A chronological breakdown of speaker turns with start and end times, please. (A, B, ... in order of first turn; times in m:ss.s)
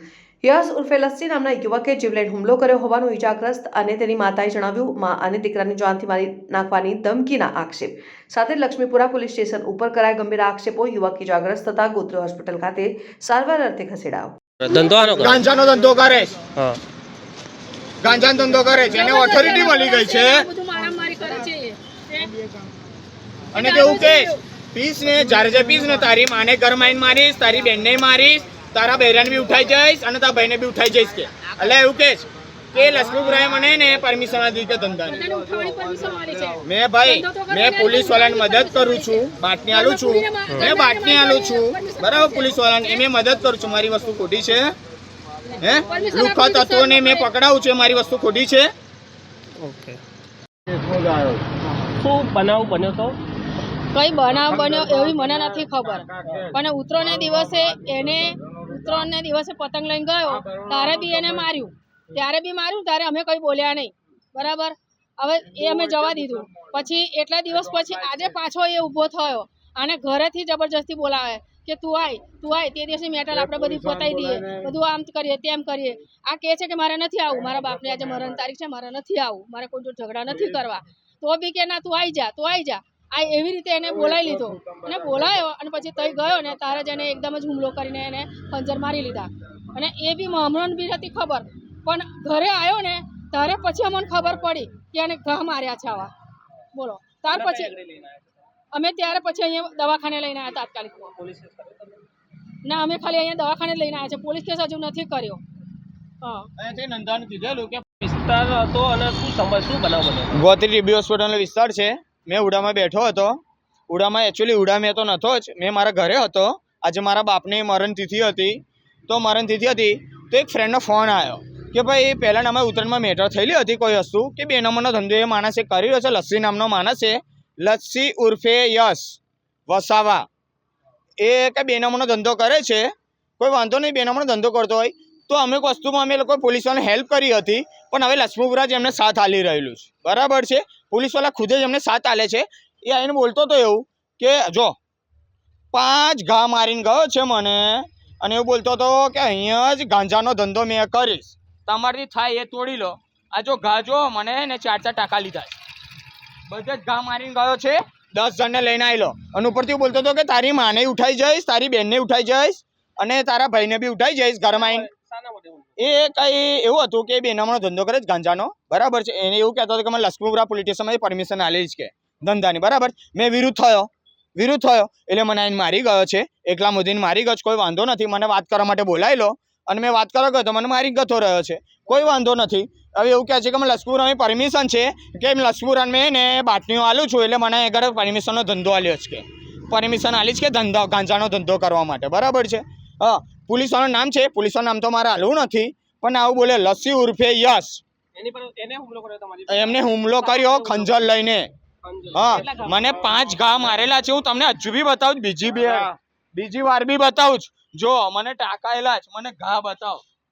0:00.4-0:14.4 A
0:14.6-0:15.4 B
0:15.2-0:16.5 C
0:16.5-0:16.8 B
0:18.0-0:20.5 C
0:18.9-0:22.3 D
0:23.5-0:35.2 C
0:23.5-0:24.4 D
0:35.0-0:43.1 D
0:36.6-0:44.8 C
0:45.5-0:47.3 D
0:45.6-0:48.7 C
0:49.6-0:50.0 B
0:52.0-0:53.2 B
0:53.9-1:36.1 D
1:36.7-1:37.8 D
1:37.3-1:38.2 B
1:38.7-1:41.2 D
1:41.2-1:41.9 B
1:42.6-1:45.4 D
1:46.2-1:46.5 D
1:46.6-1:47.9 C
1:48.0-1:50.4 B
1:50.3-1:53.4 C
1:53.9-2:10.2 C
2:11.2-2:12.9 C
2:13.4-2:24.8 C
2:25.7-2:35.6 C
2:36.5-2:44.9 C
2:44.5-2:45.8 B
2:45.8-3:17.8 C
3:18.1-3:20.9 B
3:19.5-3:21.5 C
3:21.8-3:23.6 B
3:22.1-3:30.0 C
3:25.5-3:25.9 B